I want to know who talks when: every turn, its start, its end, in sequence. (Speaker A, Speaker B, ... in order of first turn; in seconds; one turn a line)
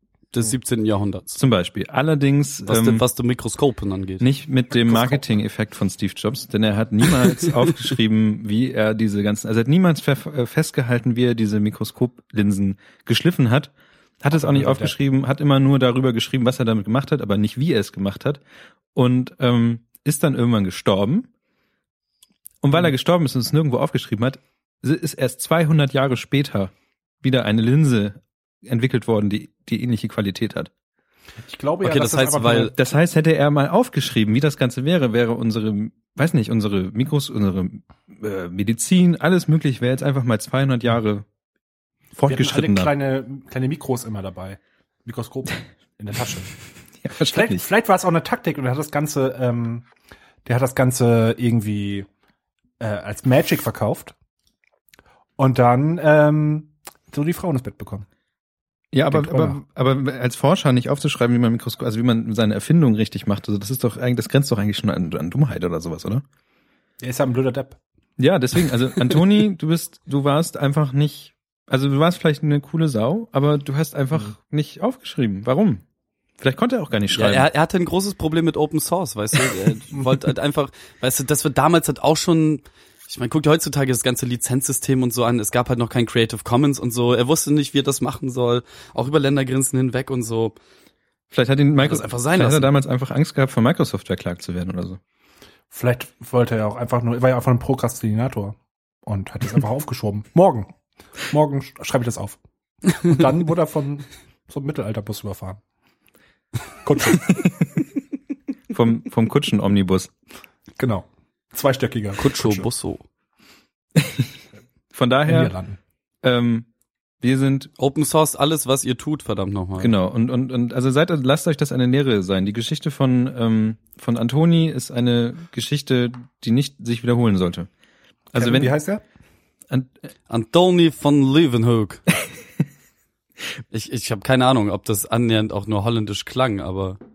Speaker A: 0.3-1.4
Speaker B: 1.4-3.0
Speaker A: 2.6-4.2
Speaker B: 4.2-18.4
Speaker C: 4.8-5.2
Speaker C: 14.3-14.9
Speaker B: 18.9-21.3
Speaker B: 22.6-30.7
Speaker C: 31.4-32.7
Speaker A: 31.8-32.7
Speaker B: 32.7-41.2
Speaker B: 42.1-42.9
Speaker C: 42.3-46.5
Speaker B: 47.0-47.6
Speaker C: 47.3-49.8
Speaker C: 50.4-52.1
Speaker C: 52.8-54.1
Speaker C: 55.4-58.0
Speaker B: 58.9-66.2
Speaker C: 59.1-59.6
Speaker C: 67.0-67.8
Speaker B: 68.2-75.8
Speaker B: 76.4-77.5
Speaker A: 77.1-90.5
Speaker B: 91.3-95.0
Speaker A: 91.8-92.7
Speaker C: 95.7-100.7
Speaker C: 101.3-105.6
Speaker C: 106.8-107.4
Speaker B: 108.7-110.1
Speaker C: 110.8-112.7
Speaker A: 112.2-113.0
Speaker B: 114.0-114.3
Speaker B: 114.9-115.5
Speaker C: 115.2-115.8
Speaker B: 116.2-116.7
Speaker B: 117.2-117.7
Speaker A: 117.8-119.9
Speaker B: 119.8-127.7
Speaker B: 128.3-128.7
Speaker C: 128.3-129.0
Speaker A: 130.3-132.0
Speaker A: 133.7-137.0